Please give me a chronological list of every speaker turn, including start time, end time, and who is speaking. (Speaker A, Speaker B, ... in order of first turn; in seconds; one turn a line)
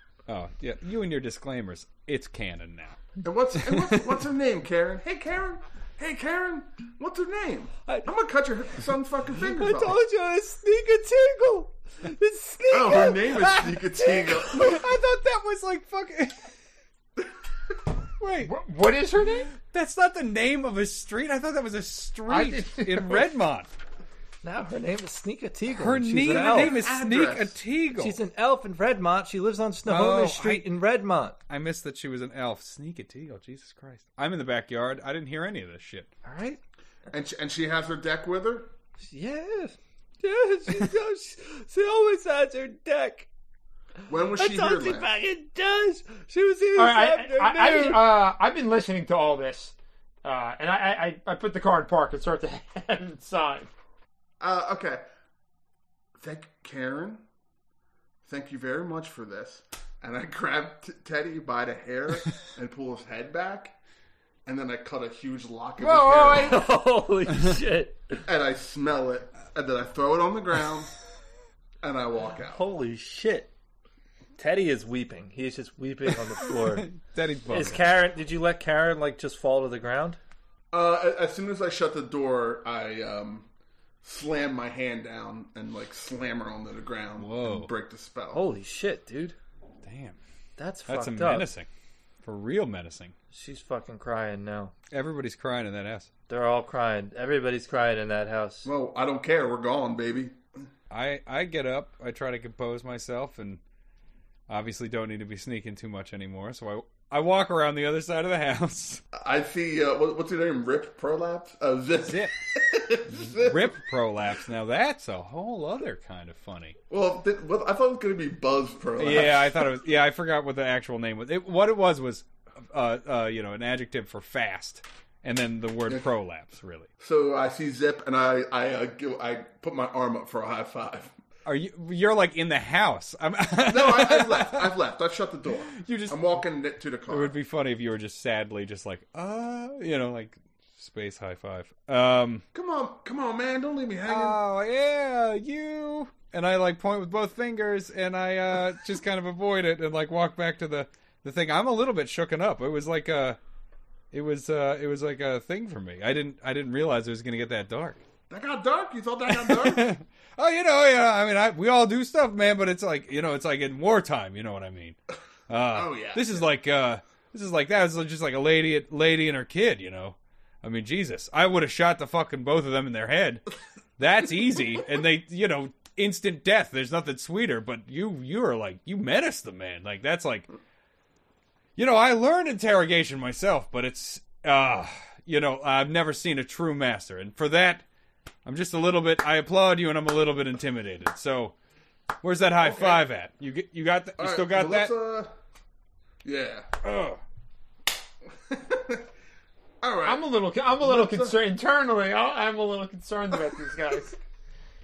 Speaker A: 0.3-3.0
Speaker B: 3.2-10.0
Speaker A: 3.7-4.0
Speaker C: 9.4-14.5
Speaker B: 12.7-14.8
Speaker A: 14.4-16.5
Speaker A: 18.2-18.5
Speaker D: 18.4-19.5
Speaker A: 19.6-23.7
Speaker D: 22.3-23.3
Speaker C: 24.4-26.8
Speaker A: 25.7-28.2
Speaker B: 26.3-27.6
Speaker C: 28.0-31.4
Speaker A: 29.9-30.7
Speaker A: 31.5-36.1
Speaker C: 36.2-36.6
Speaker B: 37.1-38.7
Speaker C: 39.0-43.3
Speaker B: 44.1-45.1
Speaker C: 44.3-48.2
Speaker D: 46.8-53.7
Speaker B: 54.4-55.0
Speaker B: 56.2-57.2
Speaker B: 58.2-63.7
Speaker B: 64.5-66.6
Speaker D: 65.8-66.6
Speaker C: 66.4-68.2
Speaker B: 68.2-70.9
Speaker B: 71.8-72.6
Speaker C: 72.4-73.5
Speaker C: 74.4-76.9
Speaker A: 76.5-77.9
Speaker C: 77.5-80.2
Speaker B: 80.7-83.5
Speaker B: 84.0-88.4
Speaker A: 87.2-87.7
Speaker C: 88.3-89.3
Speaker A: 89.8-90.2
Speaker C: 90.6-91.5
Speaker A: 90.9-91.7
Speaker A: 92.2-93.1
Speaker C: 93.3-94.7
Speaker A: 94.9-96.1
Speaker C: 96.3-98.7
Speaker B: 98.6-100.6
Speaker A: 100.9-103.6
Speaker A: 104.5-109.0
Speaker B: 109.1-113.7
Speaker A: 112.0-112.3
Speaker A: 113.2-116.8
Speaker B: 116.9-119.7
Speaker A: 119.0-126.9
Speaker B: 127.0-131.1
Speaker A: 131.4-134.7
Speaker B: 133.7-137.3
Speaker A: 135.7-136.3
Speaker A: 137.1-142.4
Speaker B: 142.5-144.4
Speaker A: 144.0-153.4
Speaker A: 154.1-158.0
Speaker B: 158.3-159.9
Speaker A: 159.3-164.9
Speaker A: 165.5-173.4
Speaker B: 165.7-166.4
Speaker A: 174.0-180.5
Speaker A: 181.8-187.8
Speaker A: 188.4-191.5
Speaker A: 192.2-194.9
Speaker B: 192.6-193.0
Speaker B: 194.2-195.3
Speaker B: 196.2-196.7
Speaker A: 196.8-197.2
Speaker B: 198.3-199.1
Speaker B: 199.8-201.4
Speaker D: 200.0-204.1